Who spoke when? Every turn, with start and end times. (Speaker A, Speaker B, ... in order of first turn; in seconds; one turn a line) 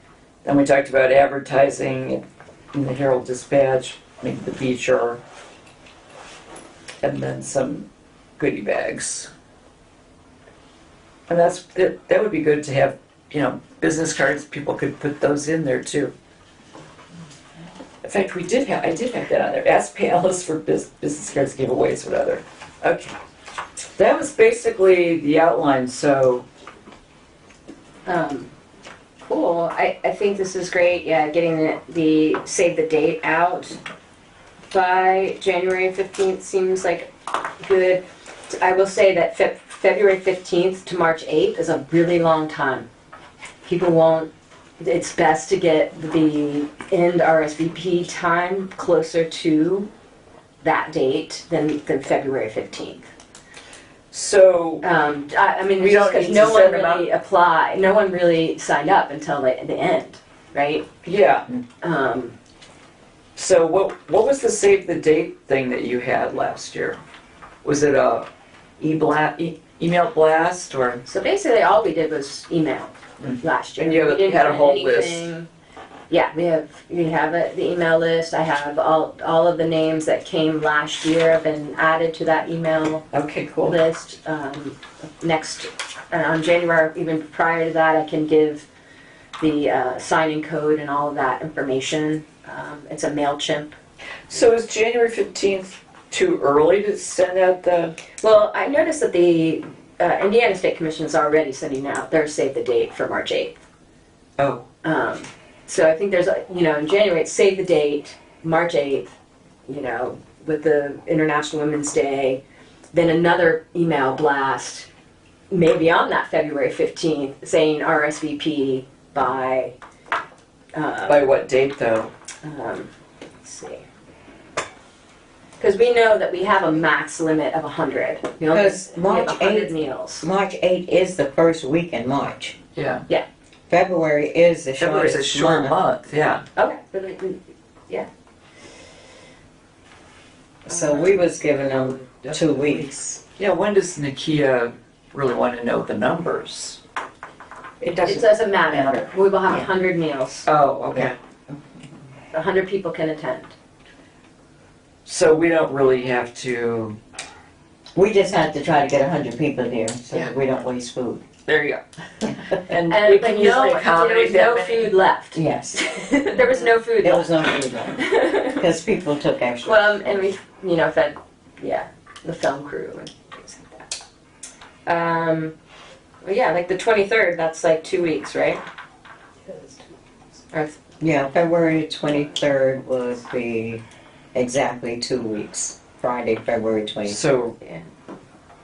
Speaker A: 0.4-5.2
Speaker A: 7.0-7.9
Speaker A: 8.4-9.3
Speaker A: 11.3-16.1
Speaker A: 18.0-23.1
Speaker A: 24.0-26.5
Speaker B: 28.1-28.5
Speaker B: 29.2-33.8
Speaker B: 34.7-42.9
Speaker B: 43.6-49.9
Speaker B: 50.6-53.1
Speaker A: 54.1-54.9
Speaker B: 54.8-60.9
Speaker A: 55.8-57.0
Speaker A: 61.0-61.5
Speaker B: 61.8-62.4
Speaker A: 63.4-67.0
Speaker A: 67.6-68.3
Speaker A: 68.8-71.0
Speaker B: 71.1-75.5
Speaker A: 73.2-75.3
Speaker B: 76.1-83.1
Speaker A: 83.1-83.8
Speaker B: 83.6-88.7
Speaker B: 89.4-93.8
Speaker A: 94.3-98.0
Speaker B: 98.2-103.6
Speaker A: 104.4-104.7
Speaker B: 104.8-109.1
Speaker B: 109.7-112.4
Speaker B: 112.9-114.9
Speaker B: 115.5-119.8
Speaker B: 120.7-121.3
Speaker A: 121.1-122.1
Speaker B: 122.4-122.9
Speaker B: 123.4-123.8
Speaker B: 125.6-130.3
Speaker C: 128.5-132.6
Speaker A: 132.8-133.1
Speaker C: 133.7-135.8
Speaker A: 134.8-136.4
Speaker B: 136.6-138.1
Speaker C: 140.7-143.2
Speaker B: 140.7-141.2
Speaker A: 141.8-146.8
Speaker A: 147.8-149.1
Speaker B: 148.0-150.5
Speaker A: 150.5-151.2
Speaker B: 152.3-153.5
Speaker A: 155.1-157.0
Speaker C: 157.9-161.2
Speaker A: 161.5-164.9
Speaker B: 162.9-168.7
Speaker C: 165.3-165.9
Speaker C: 167.0-170.2
Speaker B: 169.6-174.0
Speaker B: 174.9-175.5
Speaker B: 176.2-178.6
Speaker B: 179.5-179.8
Speaker B: 180.5-180.8
Speaker C: 181.0-183.8
Speaker C: 184.3-187.2
Speaker A: 187.1-187.6